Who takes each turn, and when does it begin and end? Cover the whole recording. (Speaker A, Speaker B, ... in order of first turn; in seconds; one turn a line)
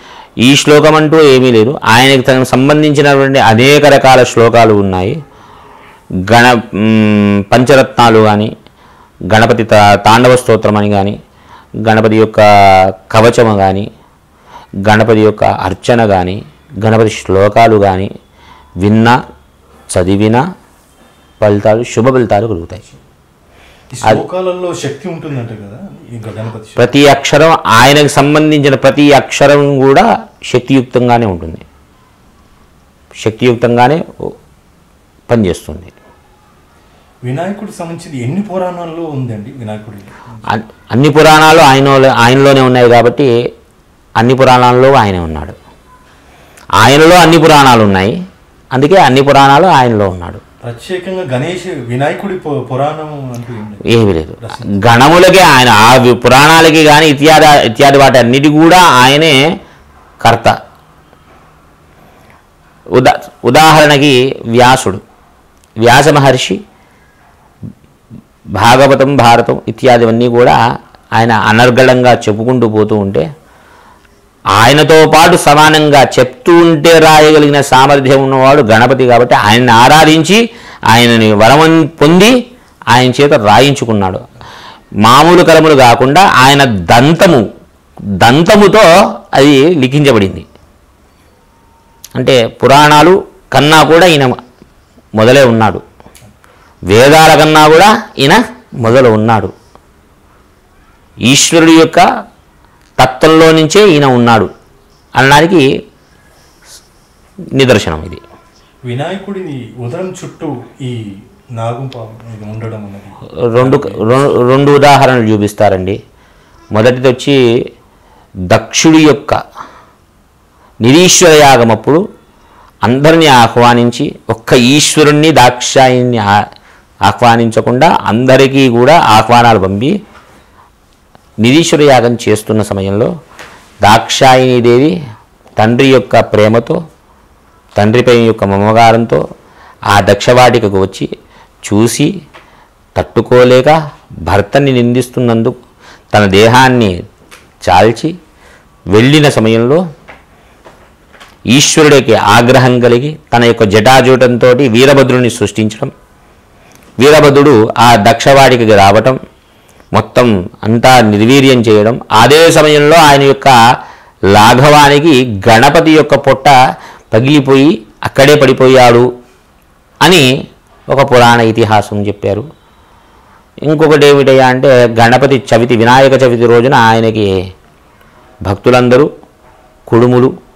Speaker A: 0.4-5.2
Speaker A: 6.3-8.5
Speaker A: 9.3-11.2
Speaker A: 11.9-12.4
Speaker A: 13.1-13.9
Speaker A: 14.9-18.1
Speaker A: 18.8-19.1
Speaker A: 19.9-20.4
Speaker A: 21.4-22.8
Speaker B: 23.9-27.0
Speaker A: 26.8-31.6
Speaker A: 33.2-34.0
Speaker A: 35.3-35.9
Speaker B: 37.2-40.1
Speaker A: 40.5-43.3
Speaker A: 44.2-45.6
Speaker A: 46.8-48.1
Speaker A: 48.7-50.4
Speaker B: 50.6-53.9
Speaker A: 53.9-59.4
Speaker B: 54.4-54.8
Speaker A: 60.2-60.5
Speaker A: 62.9-65.0
Speaker A: 65.8-66.6
Speaker A: 68.6-70.6
Speaker A: 71.2-73.3
Speaker A: 74.6-80.4
Speaker A: 80.9-82.3
Speaker A: 82.9-84.2
Speaker A: 85.0-87.4
Speaker A: 88.2-90.5
Speaker A: 92.2-94.4
Speaker A: 95.2-95.8
Speaker A: 96.9-99.5
Speaker A: 101.3-102.0
Speaker A: 103.0-104.5
Speaker A: 105.2-105.6
Speaker A: 107.6-108.2
Speaker B: 108.8-114.1
Speaker A: 113.4-116.0
Speaker A: 116.7-117.4
Speaker A: 118.5-119.4
Speaker A: 120.8-122.0
Speaker A: 122.9-126.3
Speaker A: 127.1-129.9
Speaker A: 131.4-133.1
Speaker A: 133.8-134.9
Speaker A: 135.6-136.8
Speaker A: 137.8-139.2
Speaker A: 139.9-141.1
Speaker A: 141.6-142.1
Speaker A: 143.0-143.8
Speaker A: 144.3-145.5
Speaker A: 146.1-146.9
Speaker A: 147.7-148.1
Speaker A: 148.9-149.8
Speaker A: 151.5-155.9
Speaker A: 157.0-159.2
Speaker A: 159.9-163.5
Speaker A: 164.3-166.6
Speaker A: 167.1-169.1
Speaker A: 170.9-172.4
Speaker A: 173.7-177.3
Speaker A: 178.5-179.1
Speaker A: 179.9-180.3